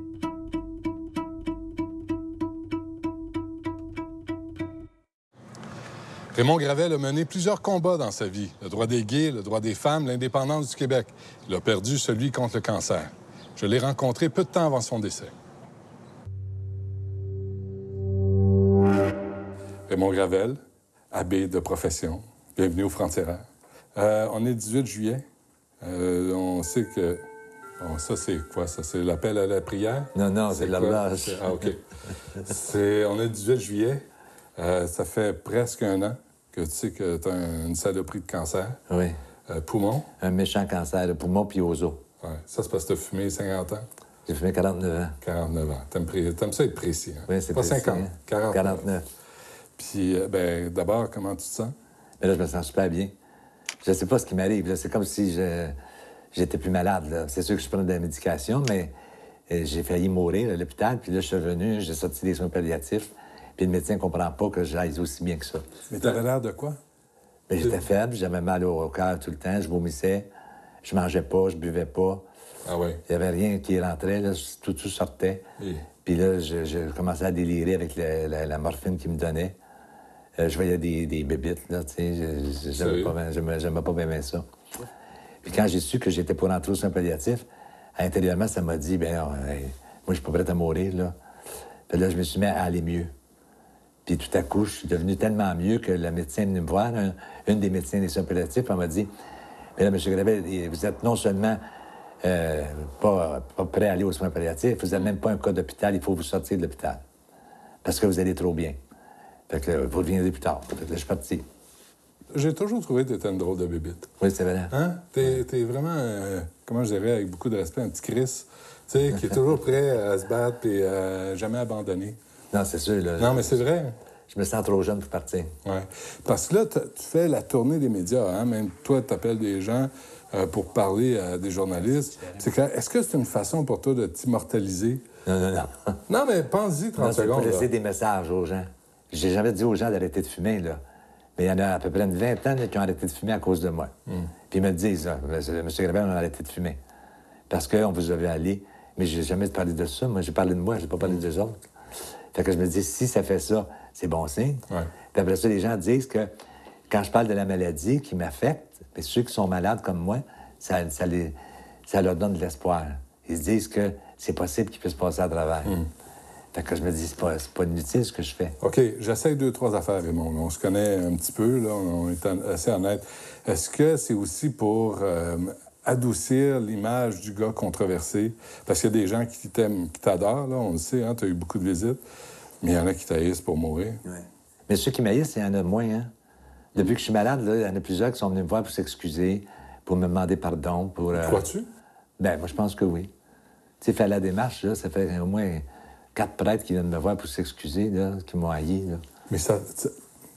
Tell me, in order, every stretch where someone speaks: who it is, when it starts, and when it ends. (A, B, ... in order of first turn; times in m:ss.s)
0:06.3-0:15.3 A
0:19.9-0:20.6 A
0:21.1-0:25.2 A
0:25.8-0:27.2 A
0:27.8-0:31.8 A
0:30.1-0:31.7 B
0:32.4-0:34.0 A
0:34.6-0:38.8 A
0:38.9-0:39.2 B
0:39.5-0:40.1 A
0:40.2-0:42.0 B
0:42.2-0:43.9 A
0:44.3-0:45.2 B
0:45.2-0:48.8 A
0:47.3-0:49.0 B
0:49.8-0:51.7 A
0:52.2-0:53.1 B
0:53.8-0:55.7 B
0:56.3-0:58.9 B
0:59.5-1:05.7 B
1:05.9-1:06.8 A
1:07.5-1:10.3 B
1:10.8-1:12.2 B
1:12.6-1:13.0 A
1:13.1-1:15.5 B
1:15.6-1:15.9 A
1:16.0-1:19.6 B
1:20.4-1:24.4 B
1:22.8-1:23.1 A
1:25.4-1:27.4 B
1:28.0-1:31.2 B
1:31.9-1:33.1 B
1:34.0-1:39.1 B
1:39.8-1:41.6 B
1:42.2-1:47.0 B
1:47.8-1:48.8 B
1:49.5-1:51.4 B
1:52.3-1:54.1 A
1:54.2-1:54.7 B
1:54.7-2:02.2 A
2:02.5-2:03.6 B
2:03.2-2:03.9 A
2:04.3-2:05.5 B
2:05.6-2:15.0 A
2:15.2-2:16.0 B
2:16.1-2:17.7 A
2:17.0-2:20.8 B
2:21.4-2:23.9 B
2:24.5-2:26.8 B
2:27.5-2:31.6 B
2:32.3-2:36.3 B
2:36.9-2:41.4 B
2:41.9-2:45.8 B
2:46.5-2:48.6 B
2:48.6-3:02.0 A
3:02.6-3:04.0 A
3:04.7-3:06.1 B
3:06.7-3:11.5 B
3:11.2-3:11.7 A
3:12.2-3:13.1 B
3:13.8-3:19.0 B
3:19.3-3:19.9 A